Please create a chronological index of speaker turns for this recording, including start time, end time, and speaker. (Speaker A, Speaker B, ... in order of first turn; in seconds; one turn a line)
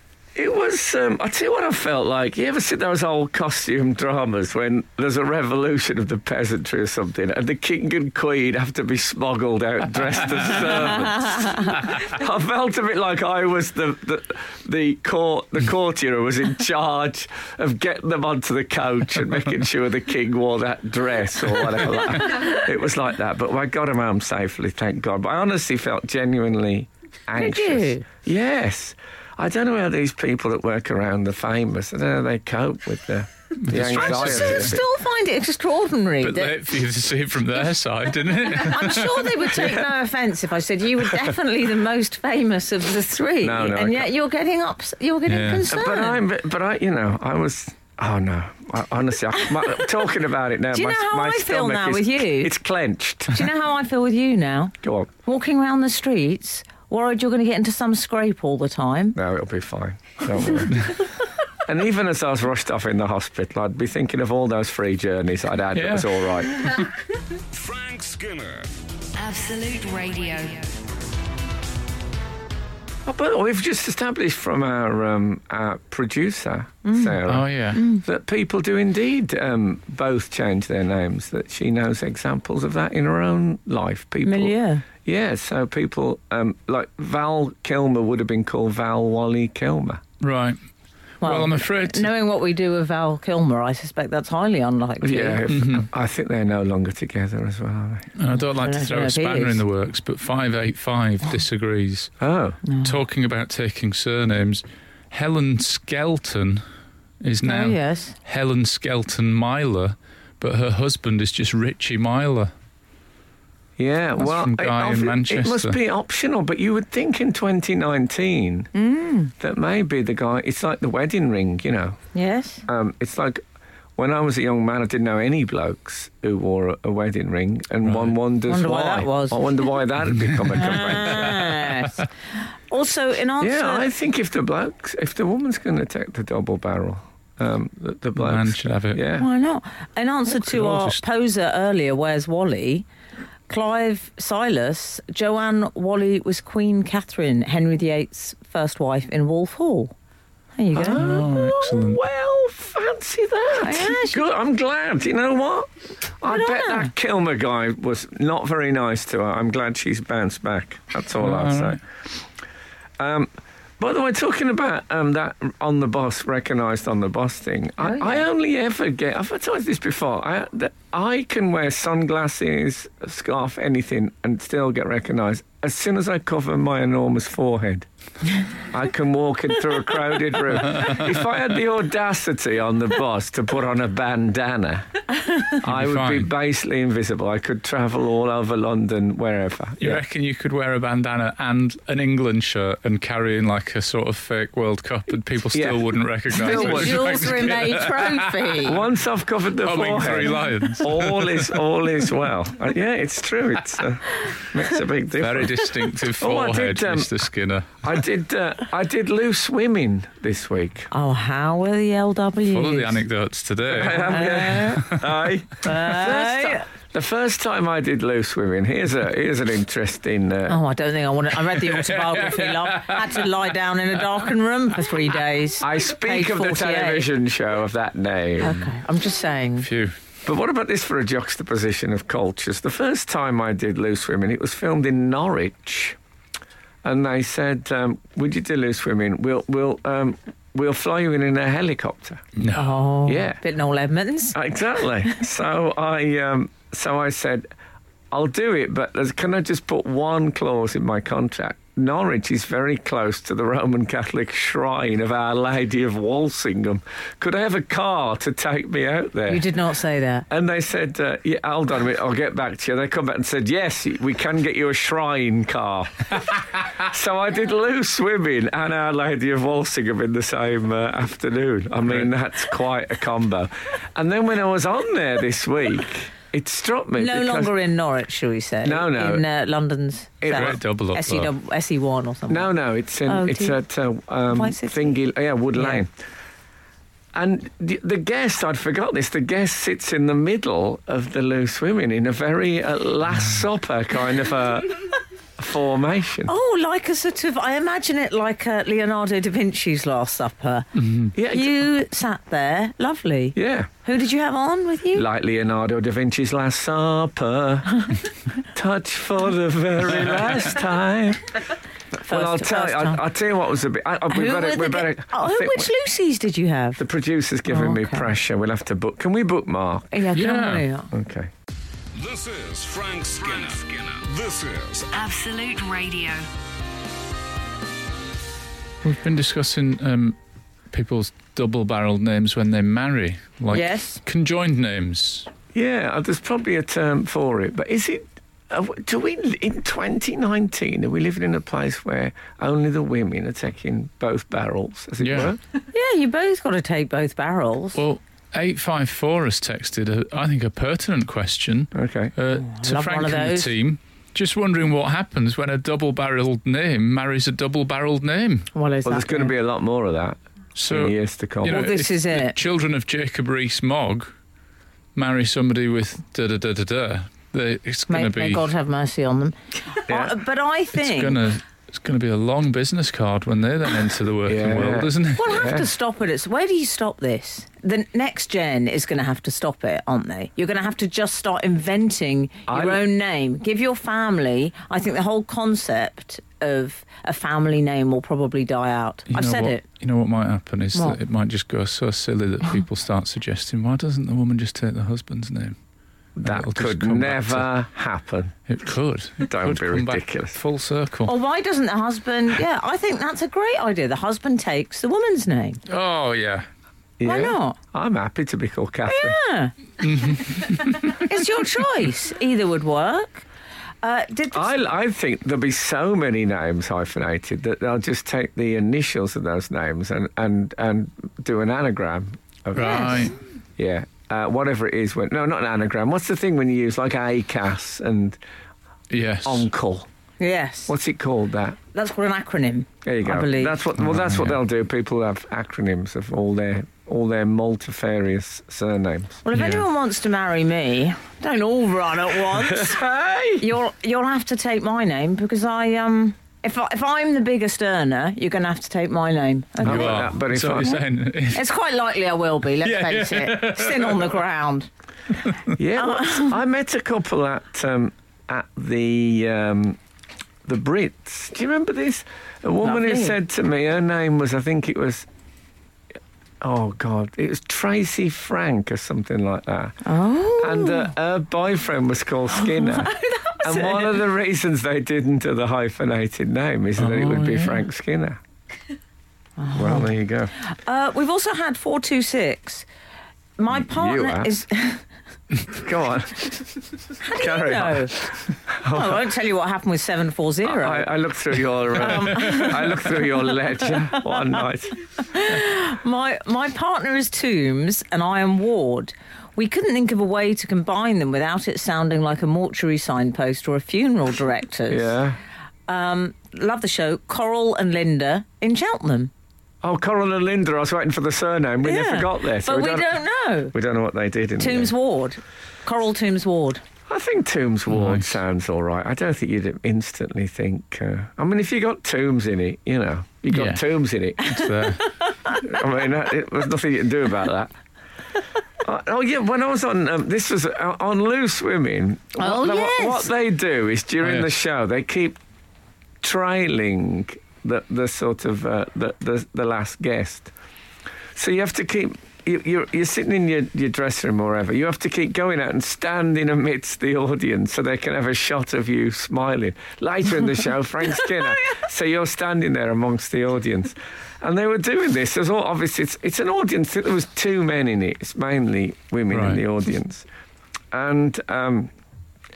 Speaker A: 0.3-34.8
Speaker B: 27.4-28.1
Speaker C: 33.6-34.8
Speaker B: 33.9-36.6
Speaker C: 36.2-39.8
Speaker B: 38.4-46.2
Speaker A: 43.4-44.1
Speaker C: 45.3-45.7
Speaker A: 45.7-53.5
Speaker B: 50.7-52.5
Speaker B: 53.3-59.2
Speaker A: 54.8-55.1
Speaker A: 59.1-60.9
Speaker A: 61.6-66.6
Speaker C: 65.7-66.1
Speaker D: 67.5-68.7
Speaker E: 69.1-70.7
Speaker A: 73.0-90.0
Speaker B: 76.8-77.2
Speaker C: 77.3-77.8
Speaker B: 77.7-78.0
Speaker B: 84.2-84.8
Speaker C: 90.2-90.6
Speaker C: 91.2-92.1
Speaker B: 91.2-95.4
Speaker A: 95.0-98.1
Speaker C: 95.5-95.9
Speaker C: 98.2-102.1
Speaker B: 98.6-99.6
Speaker A: 102.2-102.6
Speaker B: 102.7-103.0
Speaker C: 102.8-106.6
Speaker C: 107.2-112.5
Speaker B: 107.4-108.2
Speaker A: 113.8-118.7
Speaker C: 114.2-115.8
Speaker B: 118.7-119.3
Speaker A: 119.4-122.0
Speaker B: 122.1-122.6
Speaker A: 122.7-123.4
Speaker A: 124.0-131.5
Speaker C: 127.8-128.1
Speaker B: 128.4-129.5
Speaker C: 130.1-130.7
Speaker B: 130.6-132.0
Speaker B: 132.7-133.9
Speaker A: 133.4-139.3
Speaker C: 138.2-139.0
Speaker B: 139.1-142.8
Speaker C: 140.4-141.0
Speaker B: 143.5-149.9
Speaker B: 150.5-151.0
Speaker A: 150.7-161.8
Speaker C: 150.9-152.0
Speaker B: 153.6-154.2
Speaker B: 156.3-156.9
Speaker C: 161.2-161.8
Speaker A: 163.0-177.9
Speaker B: 167.8-168.2
Speaker A: 178.7-184.9
Speaker A: 185.6-190.0
Speaker C: 185.6-186.3
Speaker C: 189.8-198.6
Speaker A: 195.5-197.8
Speaker B: 196.3-198.8
Speaker A: 198.6-207.1
Speaker C: 199.6-201.5
Speaker C: 205.2-207.8
Speaker A: 207.8-210.9
Speaker B: 210.9-213.0
Speaker C: 212.5-215.1
Speaker A: 213.7-220.6
Speaker B: 213.8-214.8
Speaker B: 215.6-216.6
Speaker B: 220.5-227.1
Speaker C: 221.6-223.2
Speaker A: 225.6-228.6
Speaker B: 228.4-229.7
Speaker C: 229.6-229.9
Speaker A: 230.2-236.0
Speaker A: 236.8-242.2
Speaker C: 242.3-242.8
Speaker B: 242.5-244.3
Speaker A: 243.1-243.4
Speaker A: 244.3-247.5
Speaker A: 248.1-259.4
Speaker B: 259.3-260.2
Speaker A: 260.3-277.5
Speaker B: 277.0-282.5
Speaker A: 278.6-279.2
Speaker A: 280.2-280.6
Speaker C: 280.3-281.3
Speaker A: 282.3-285.9
Speaker B: 283.0-283.6
Speaker B: 284.3-285.0
Speaker B: 285.5-285.8
Speaker A: 287.1-296.3
Speaker B: 296.3-300.7
Speaker C: 300.8-301.1
Speaker A: 301.1-301.6
Speaker B: 301.2-305.1
Speaker A: 303.3-303.7
Speaker A: 304.9-307.9
Speaker A: 308.5-311.4
Speaker A: 312.0-315.7
Speaker B: 312.1-313.0
Speaker B: 314.1-316.8
Speaker A: 316.8-319.9
Speaker B: 317.5-318.1
Speaker B: 319.9-320.9
Speaker C: 320.1-320.6
Speaker A: 320.9-321.3
Speaker D: 321.9-324.9
Speaker E: 324.9-326.2
Speaker C: 328.8-330.1
Speaker C: 330.7-335.3
Speaker B: 333.5-334.0
Speaker A: 335.5-345.4
Speaker C: 345.0-345.3
Speaker B: 345.7-347.8
Speaker C: 347.8-358.5
Speaker A: 351.7-352.1
Speaker B: 352.4-353.5
Speaker B: 358.5-359.3
Speaker A: 358.8-360.2
Speaker C: 360.6-364.1
Speaker A: 360.7-361.6
Speaker B: 361.4-362.4
Speaker C: 364.9-368.4
Speaker B: 367.9-371.2
Speaker A: 369.9-370.2
Speaker C: 370.7-375.5
Speaker A: 374.2-375.7
Speaker B: 375.1-389.6
Speaker A: 382.5-382.8
Speaker C: 389.1-395.6
Speaker A: 396.2-398.4
Speaker C: 396.2-397.5
Speaker C: 398.5-401.1
Speaker A: 399.2-400.4
Speaker B: 401.1-405.6
Speaker C: 405.7-406.5
Speaker A: 407.0-409.2
Speaker B: 407.0-407.6
Speaker B: 408.9-409.5
Speaker C: 409.8-411.0
Speaker B: 410.8-413.2
Speaker B: 413.8-414.6
Speaker A: 414.3-428.2
Speaker B: 422.5-423.1
Speaker C: 422.5-423.1
Speaker C: 428.9-429.4
Speaker A: 429.2-429.9
Speaker B: 430.2-430.7
Speaker A: 430.7-431.6
Speaker B: 431.7-433.6
Speaker A: 432.8-439.2
Speaker C: 433.8-434.4
Speaker B: 439.2-442.8
Speaker C: 439.3-439.6
Speaker A: 442.3-443.5
Speaker B: 443.4-450.1
Speaker C: 449.6-451.4
Speaker A: 449.6-450.8
Speaker B: 451.3-454.7
Speaker C: 452.6-454.1
Speaker A: 455.5-459.8
Speaker B: 455.8-456.3
Speaker A: 460.4-465.1
Speaker B: 462.6-463.1
Speaker A: 466.4-469.8
Speaker B: 469.8-470.9
Speaker A: 470.4-478.2
Speaker B: 472.4-474.0
Speaker C: 476.8-477.6
Speaker B: 479.4-479.9
Speaker A: 479.5-480.3
Speaker B: 480.4-482.7
Speaker B: 483.4-484.8
Speaker A: 483.5-484.3
Speaker A: 485.5-486.5
Speaker B: 487.0-488.0
Speaker A: 487.1-489.0
Speaker B: 488.6-490.9
Speaker A: 490.4-494.7
Speaker B: 491.7-493.1
Speaker B: 495.0-505.0
Speaker A: 504.7-505.2
Speaker B: 505.7-509.1
Speaker A: 509.6-512.9
Speaker B: 511.6-513.5
Speaker A: 513.5-514.7
Speaker B: 514.4-516.6
Speaker A: 516.9-524.4
Speaker C: 517.7-518.1
Speaker C: 523.3-523.6
Speaker C: 524.2-524.9
Speaker B: 524.4-525.3
Speaker A: 525.3-527.5
Speaker A: 528.6-535.2
Speaker B: 532.2-533.1
Speaker C: 534.0-534.3
Speaker A: 536.0-540.3
Speaker A: 541.1-560.0
Speaker C: 559.1-559.4
Speaker A: 560.7-561.7